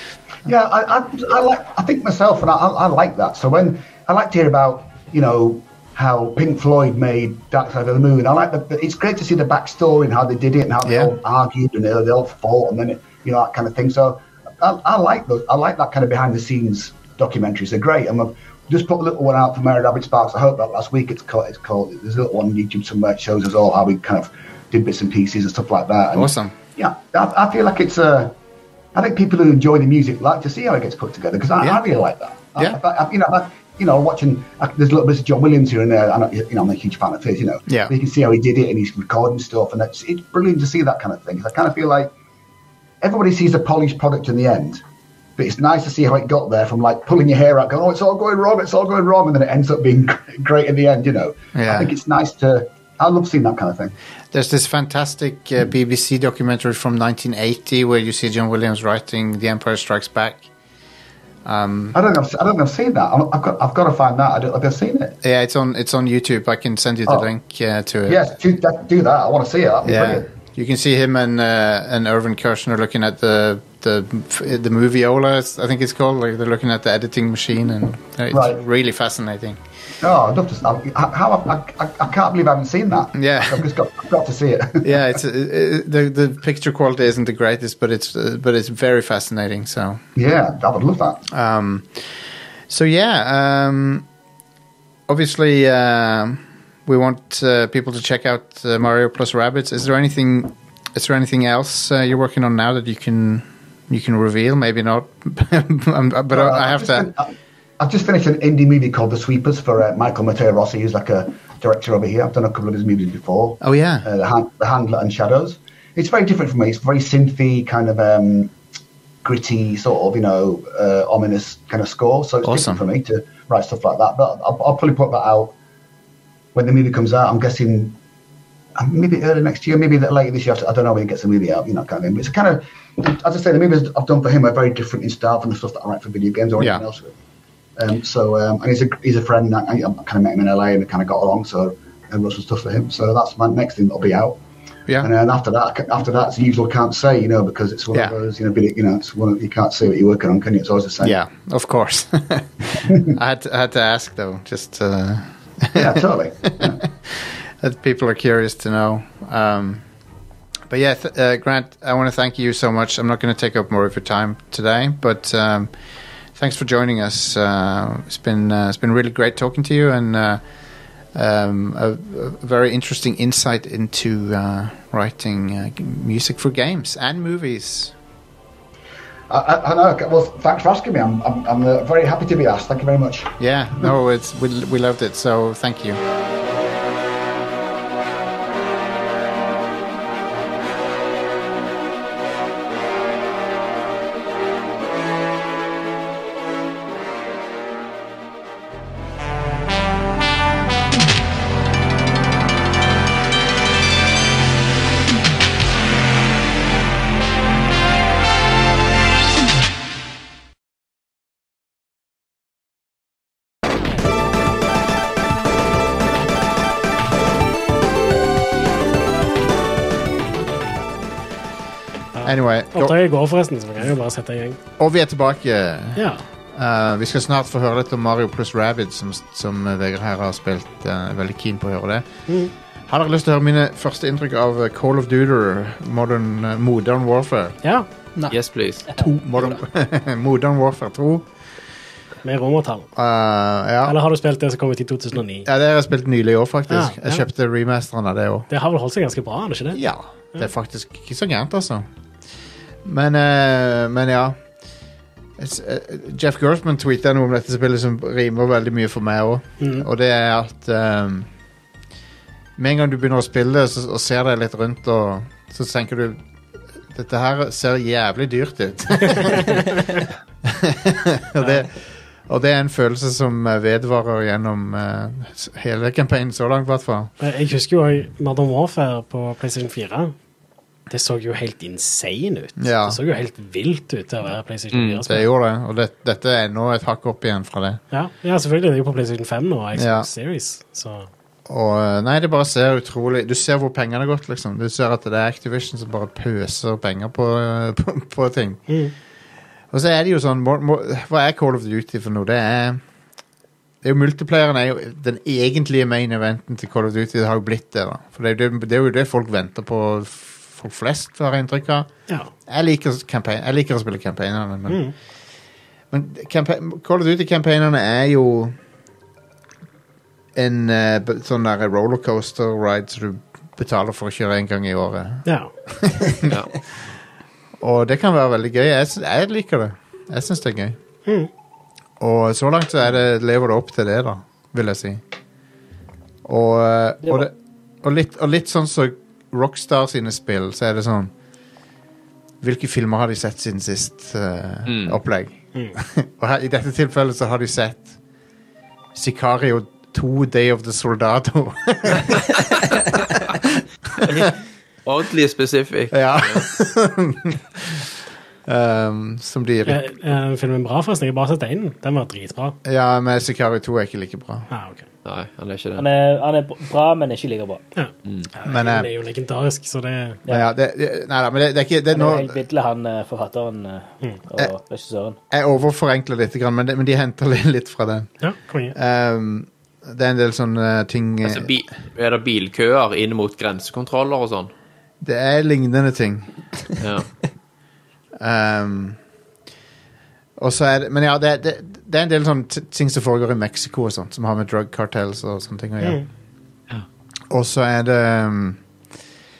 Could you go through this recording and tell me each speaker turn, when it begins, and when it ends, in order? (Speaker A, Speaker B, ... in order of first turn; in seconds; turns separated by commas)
Speaker A: 0.4-28.3, Speaker B: 10.8-11.1, Speaker B: 26.1-26.5, Speaker A: 28.9-42.1, Speaker B: 37.7-37.9, Speaker A: 43.0-44.8, Speaker A: 45.4-53.9, Speaker B: 51.5-51.9, Speaker B: 54.3-60.5, Speaker B: 61.4-62.0, Speaker A: 61.9-65.2, Speaker B: 65.2-68.2, Speaker A: 68.1-70.3, Speaker B: 69.8-79.6, Speaker A: 78.3-78.6, Speaker A: 80.0-85.0, Speaker B: 83.1-83.7, Speaker B: 84.8-90.0, Speaker A: 90.2-91.2, Speaker B: 91.3-92.2, Speaker B: 92.7-94.0, Speaker B: 95.1-107.1, Speaker A: 106.3-118.5, Speaker B: 113.6-114.1, Speaker A: 119.2-125.5, Speaker B: 122.4-122.8, Speaker A: 126.5-128.0, Speaker A: 128.8-137.1, Speaker A: 137.8-144.4, Speaker A: 145.0-151.2, Speaker B: 151.0-159.8, Speaker A: 155.7-156.8, Speaker B: 160.7-165.7, Speaker B: 166.3-170.4, Speaker B: 171.1-177.9, Speaker A: 179.3-183.3, Speaker B: 183.4-186.0, Speaker C: 222.2-224.6, Speaker B: 222.2-222.9, Speaker B: 224.8-232.1, Speaker C: 226.0-226.2, Speaker C: 232.3-232.5, Speaker B: 232.9-237.6, Speaker D: 238.3-238.8, Speaker B: 238.9-241.2, Speaker C: 242.2-242.9, Speaker B: 242.9-243.9, Speaker C: 243.8-245.5, Speaker B: 245.4-248.5, Speaker C: 246.7-247.2, Speaker C: 248.5-249.8, Speaker B: 249.7-251.8, Speaker B: 252.8-254.4, Speaker B: 255.4-261.3, Speaker C: 259.6-259.9, Speaker B: 262.6-266.2, Speaker B: 266.9-269.7, Speaker C: 269.2-270.0, Speaker B: 270.4-277.1, Speaker C: 277.2-280.1, Speaker C: 280.9-285.2, Speaker B: 282.6-283.0, Speaker D: 284.7-285.0, Speaker B: 285.0-287.8, Speaker C: 287.9-291.1, Speaker B: 289.7-290.1, Speaker B: 291.5-298.6, Speaker C: 298.7-298.9, Speaker B: 299.7-302.8, Speaker B: 303.8-311.9, Speaker B: 312.5-314.9, Speaker C: 314.7-314.9, Speaker B: 315.9-318.6, Speaker B: 320.3-326.3, Speaker C: 325.2-325.5, Speaker D: 326.2-326.5, Speaker B: 327.6-330.8, Speaker B: 332.0-335.0, Speaker B: 336.2-337.3, Speaker B: 337.8-341.1, Speaker B: 342.4-347.9, Speaker D: 344.6-345.0, Speaker B: 348.9-354.3, Speaker D: 354.0-356.4, Speaker B: 355.9-357.9, Speaker B: 358.5-359.8, Speaker C: 359.6-362.6, Speaker B: 362.6-364.5, Speaker C: 364.5-364.8, Speaker D: 365.0-365.8, Speaker E: 365.8-367.6, Speaker C: 367.7-370.2, Speaker B: 368.4-368.9, Speaker E: 370.2-370.5, Speaker B: 370.3-372.4, Speaker E: 371.9-375.2, Speaker B: 375.3-378.1, Speaker C: 378.2-378.7, Speaker B: 378.7-381.5, Speaker D: 381.2-384.5, Speaker B: 385.0-386.3, Speaker D: 386.8-387.1, Speaker B: 388.2-389.0, Speaker B: 390.4-396.0, Speaker C: 395.8-396.1, Speaker B: 397.3-398.6